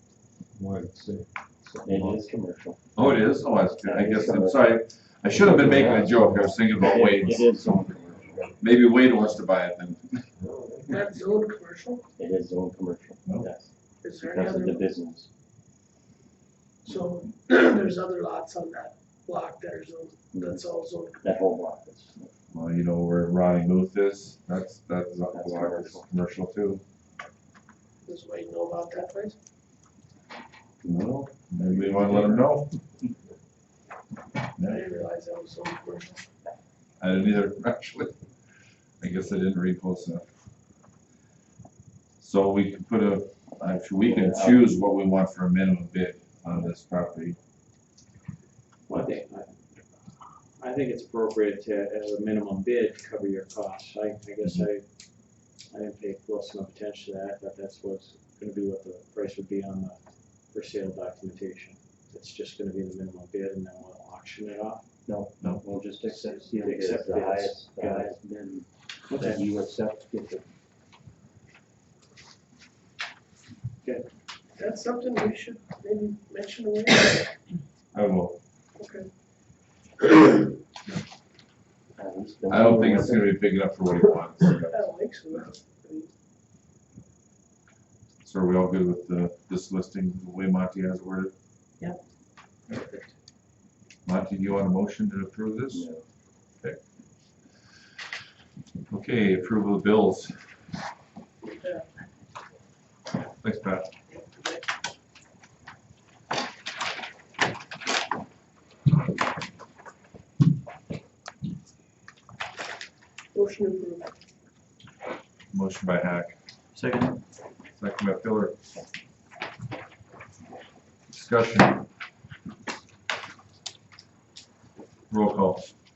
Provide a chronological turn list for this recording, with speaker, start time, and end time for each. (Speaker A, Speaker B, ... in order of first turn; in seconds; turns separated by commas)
Speaker A: 0.6-2.3, Speaker B: 1.8-3.0, Speaker C: 2.9-7.5, Speaker B: 3.8-4.8, Speaker A: 5.4-6.5, Speaker B: 6.8-8.6, Speaker C: 8.6-10.3, Speaker A: 10.4-10.9, Speaker D: 10.9-12.0, Speaker B: 12.2-13.7, Speaker D: 14.0-14.9, Speaker B: 14.2-15.3, Speaker D: 16.9-21.4, Speaker B: 20.3-20.6, Speaker B: 21.2-22.3, Speaker C: 22.5-26.8, Speaker B: 25.3-26.1, Speaker D: 28.1-29.4, Speaker B: 30.8-32.4, Speaker C: 30.8-32.7, Speaker C: 34.6-34.8, Speaker D: 34.6-36.2, Speaker C: 37.0-38.1, Speaker C: 39.0-40.2, Speaker C: 42.2-47.4, Speaker B: 44.0-44.6, Speaker E: 48.9-49.8, Speaker E: 50.6-54.8, Speaker E: 55.7-60.0, Speaker E: 60.5-64.8, Speaker B: 65.1-70.4, Speaker E: 66.0-68.1, Speaker E: 69.1-69.5, Speaker D: 74.5-77.3, Speaker C: 77.9-78.4, Speaker D: 78.8-79.1, Speaker B: 82.0-83.4, Speaker C: 82.5-85.5, Speaker D: 84.7-86.1, Speaker C: 88.2-91.3, Speaker E: 92.7-93.1, Speaker C: 94.0-95.9, Speaker B: 95.7-96.0, Speaker C: 98.9-100.4, Speaker D: 101.4-101.8, Speaker C: 103.4-103.9, Speaker D: 104.1-104.6, Speaker D: 113.3-114.1, Speaker C: 115.5-116.4, Speaker E: 116.7-117.2, Speaker C: 117.7-118.5, Speaker C: 121.1-121.8, Speaker C: 125.1-125.7